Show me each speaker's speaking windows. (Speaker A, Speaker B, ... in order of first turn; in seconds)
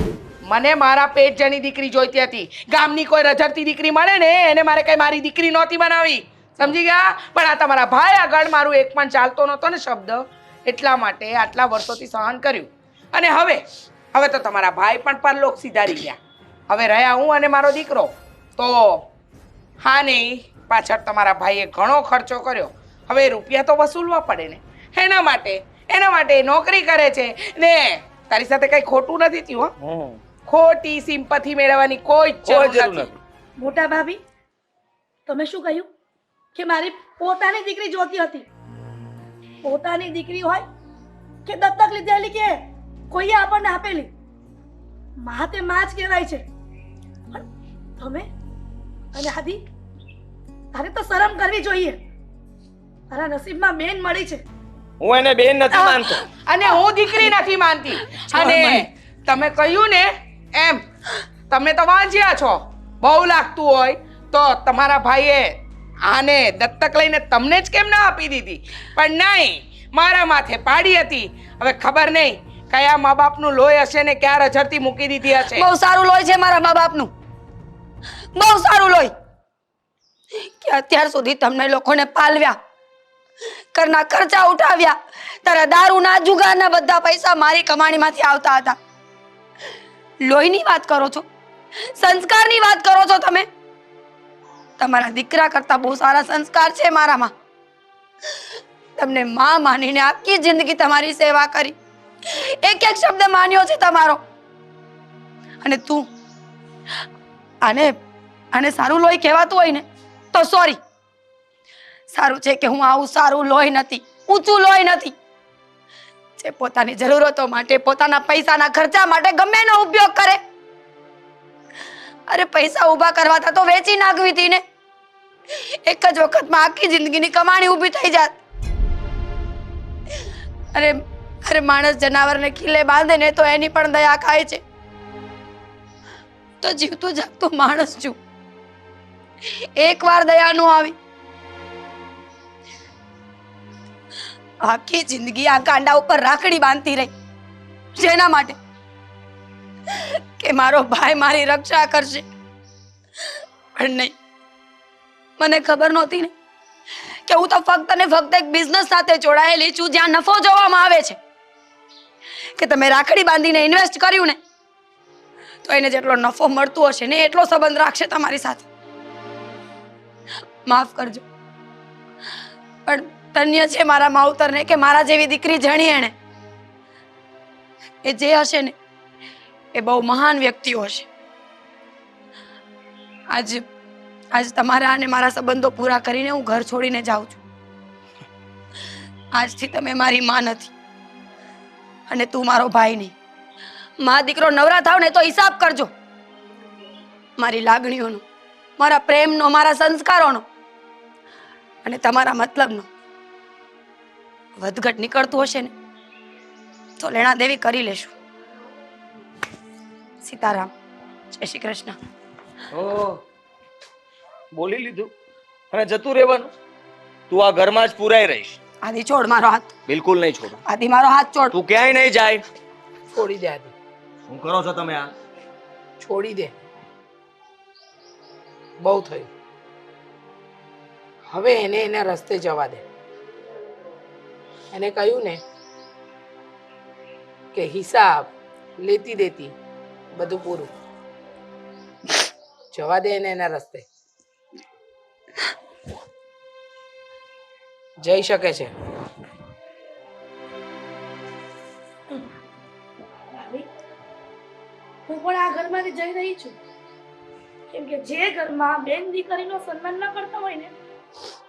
Speaker A: 0.4-16.2, 16.7-19.0, 19.8-29.7, 30.4-33.1, 56.4-60.8, 61.5-75.7, 223.1-223.7, 226.0-226.5, 228.8-229.3, 231.3-232.8, 234.7-235.4, 237.5-239.5, 240.1-240.7, 242.7-243.8, 248.0-248.7
Speaker B: 29.8-30.2, 32.4-33.2, 55.0-56.2, 212.7-213.2, 214.5-215.1, 215.7-216.5, 217.3-218.6, 219.9-220.6, 221.5-222.4, 224.3-225.1
Speaker C: 33.6-34.2, 35.2-35.9, 36.5-38.5, 39.6-40.6, 41.5-44.1, 45.2-46.4, 48.0-48.3, 49.1-49.6, 50.7-52.0, 53.1-54.4, 253.3-253.7, 255.1-256.6, 257.7-260.7
Speaker D: 58.0-58.8, 75.4-77.1, 78.3-79.1, 80.4-82.6, 83.7-88.8, 90.2-91.2, 91.9-93.5, 94.8-97.3, 99.0-101.7, 102.3-104.2, 105.6-106.1, 107.6-107.9, 108.5-110.8, 112.1-115.1, 116.4-120.4, 122.3-124.6, 125.5-128.4, 130.7-134.6, 136.6-138.2, 139.8-140.9, 144.6-147.1, 147.9-148.6, 149.9-152.3, 153.8-154.1, 155.4-156.3, 157.2-161.2, 162.6-164.4, 165.6-168.7, 170.7-171.2, 172.8-176.1, 178.0-178.7, 179.7-181.1, 183.3-183.6, 184.3-187.4, 189.3-190.7, 192.1-193.1, 194.0-195.9, 197.4-198.2, 198.8-200.4, 201.8-202.9, 204.6-205.7, 207.0-208.1, 210.2-210.7, 211.3-211.9, 218.8-219.7, 220.6-221.6